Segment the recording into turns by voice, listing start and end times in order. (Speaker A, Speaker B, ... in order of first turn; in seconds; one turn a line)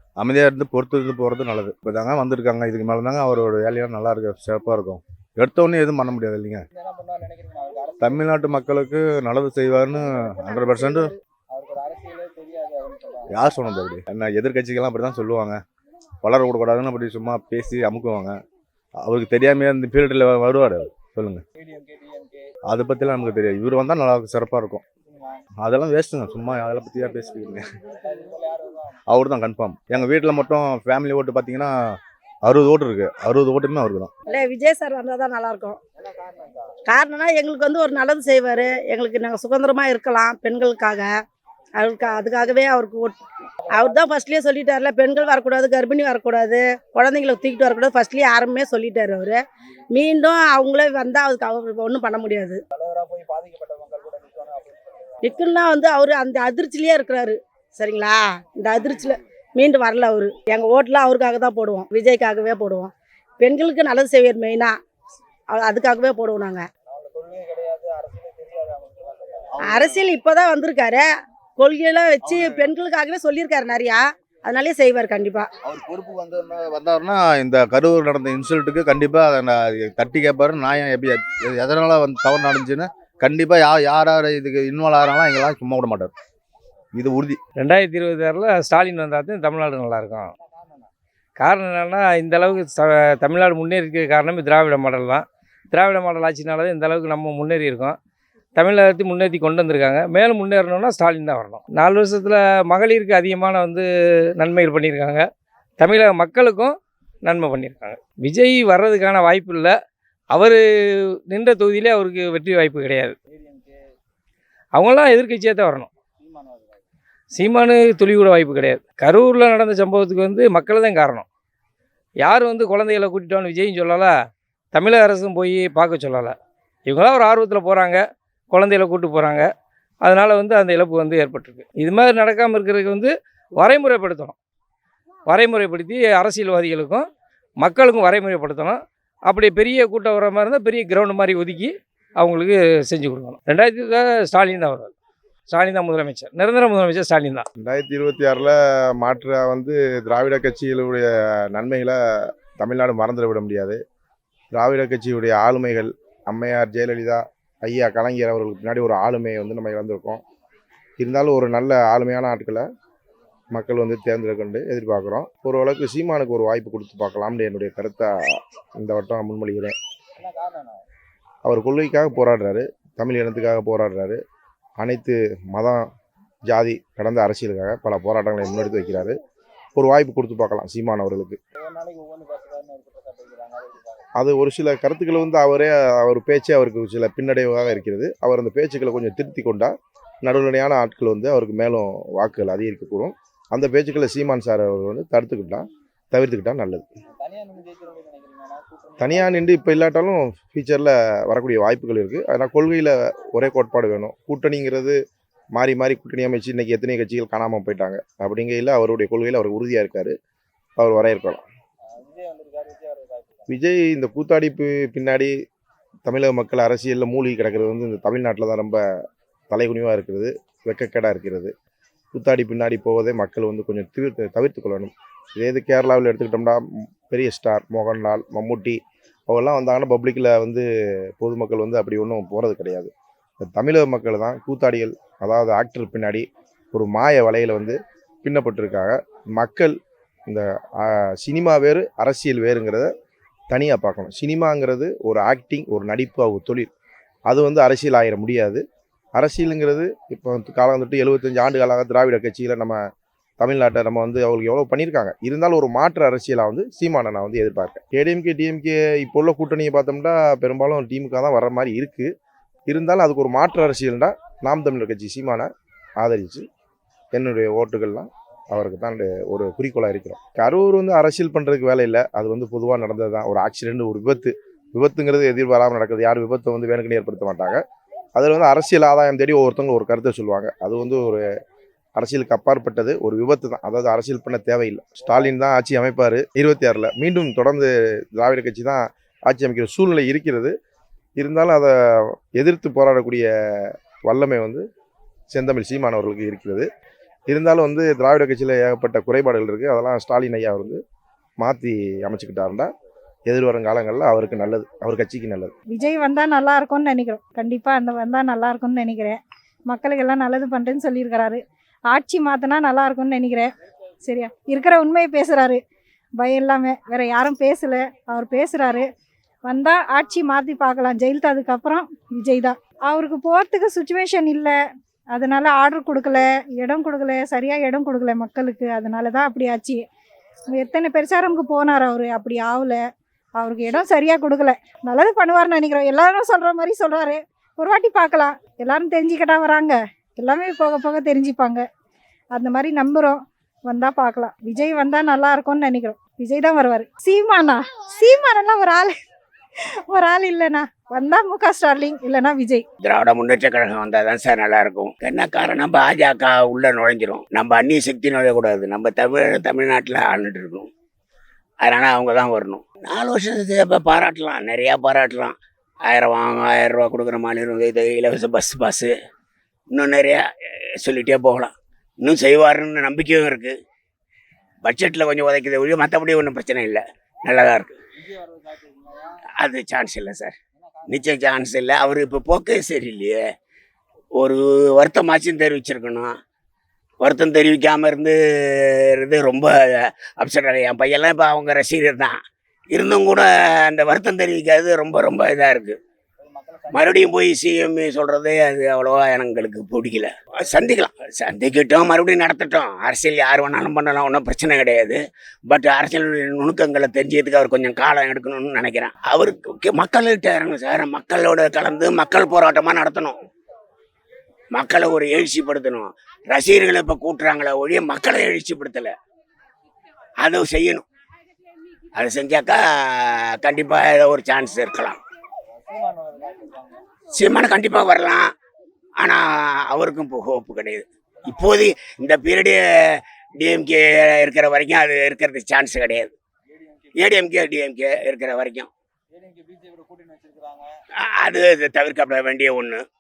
Speaker A: 0.2-6.6
Speaker B: 6.8-8.3
Speaker A: 8.0-11.1
Speaker C: 10.6-11.1
Speaker B: 11.5-13.3
Speaker A: 13.3-15.6
Speaker A: 16.2-18.4
Speaker A: 19.0-21.4
Speaker B: 21.7-22.4
Speaker A: 22.7-24.8
Speaker A: 25.6-27.7
Speaker B: 28.0-28.8
Speaker A: 29.1-34.1
Speaker C: 34.3-35.8
Speaker C: 36.9-41.1
Speaker C: 41.8-43.2
Speaker C: 43.7-49.4
Speaker C: 49.9-52.6
Speaker B: 52.8-54.9
Speaker C: 55.2-64.8
Speaker C: 65.5-66.7
Speaker B: 67.2-69.5
Speaker C: 69.6-75.5
Speaker A: 72.3-72.6
Speaker A: 75.7-86.1
Speaker A: 87.0-87.4
Speaker D: 87.6-90.3
Speaker D: 91.4-98.0
Speaker D: 98.6-103.9
Speaker D: 104.4-105.2
Speaker D: 105.8-109.7
Speaker D: 110.3-113.2
Speaker B: 113.3-113.8
Speaker D: 114.8-115.9
Speaker B: 116.2-116.8
Speaker D: 117.3-121.2
Speaker D: 122.2-124.1
Speaker D: 124.7-126.3
Speaker D: 126.9-129.5
Speaker D: 130.0-134.3
Speaker D: 135.3-137.1
Speaker D: 137.6-144.9
Speaker D: 145.5-147.5
Speaker E: 147.6-152.0
Speaker E: 152.6-153.8
Speaker E: 154.5-160.2
Speaker E: 161.0-162.6
Speaker E: 163.5-168.1
Speaker E: 168.8-169.8
Speaker B: 170.2-170.6
Speaker E: 171.4-174.2
Speaker E: 174.8-175.8
Speaker E: 176.5-179.2
Speaker E: 179.8-181.4
Speaker B: 181.7-184.0
Speaker E: 184.2-189.7
Speaker E: 190.2-196.9
Speaker B: 197.2-199.4
Speaker E: 199.0-204.9
Speaker E: 205.6-210.1
Speaker E: 210.8-211.4
Speaker B: 212.0-213.3
Speaker E: 213.5-215.3
Speaker E: 216.1-218.8
Speaker E: 219.5-221.5
Speaker E: 222.1-228.8
Speaker E: 229.3-230.7
Speaker E: 231.2-232.9
Speaker E: 233.4-239.8
Speaker E: 240.3-242.9
Speaker E: 243.5-246.7
Speaker E: 247.3-248.6
Speaker E: 249.2-252.8
Speaker E: 253.4-262.1
Speaker E: 262.7-265.5
Speaker E: 266.0-266.5
Speaker E: 267.1-277.6
Speaker E: 278.2-281.2
Speaker E: 282.0-290.5
Speaker E: 291.2-291.7
Speaker E: 292.4-293.3
Speaker E: 294.1-294.6
Speaker E: 295.3-296.7
Speaker E: 297.3-300.8
Speaker E: 301.4-302.7
Speaker E: 303.3-305.5
Speaker F: 305.7-313.5
Speaker F: 314.1-315.6
Speaker F: 316.2-318.9
Speaker F: 319.5-324.6
Speaker F: 325.1-329.8
Speaker F: 330.5-332.8
Speaker F: 333.4-341.6
Speaker F: 342.3-348.9
Speaker F: 349.9-352.6
Speaker G: 352.8-360.7
Speaker G: 361.6-365.4
Speaker G: 365.9-368.9
Speaker G: 369.7-370.2
Speaker G: 370.8-373.6
Speaker G: 374.6-377.8
Speaker B: 378.1-379.0
Speaker G: 379.4-383.2
Speaker G: 384.2-386.1
Speaker G: 387.0-388.2
Speaker G: 388.9-389.5
Speaker G: 390.2-392.2
Speaker G: 392.7-395.8
Speaker G: 396.7-413.2
Speaker G: 414.5-418.9
Speaker G: 420.2-420.9
Speaker G: 421.9-425.0
Speaker B: 425.7-426.7
Speaker G: 427.1-428.3
Speaker G: 429.0-432.6
Speaker G: 433.4-436.1
Speaker G: 437.0-438.7
Speaker B: 439.1-440.7
Speaker G: 441.1-442.8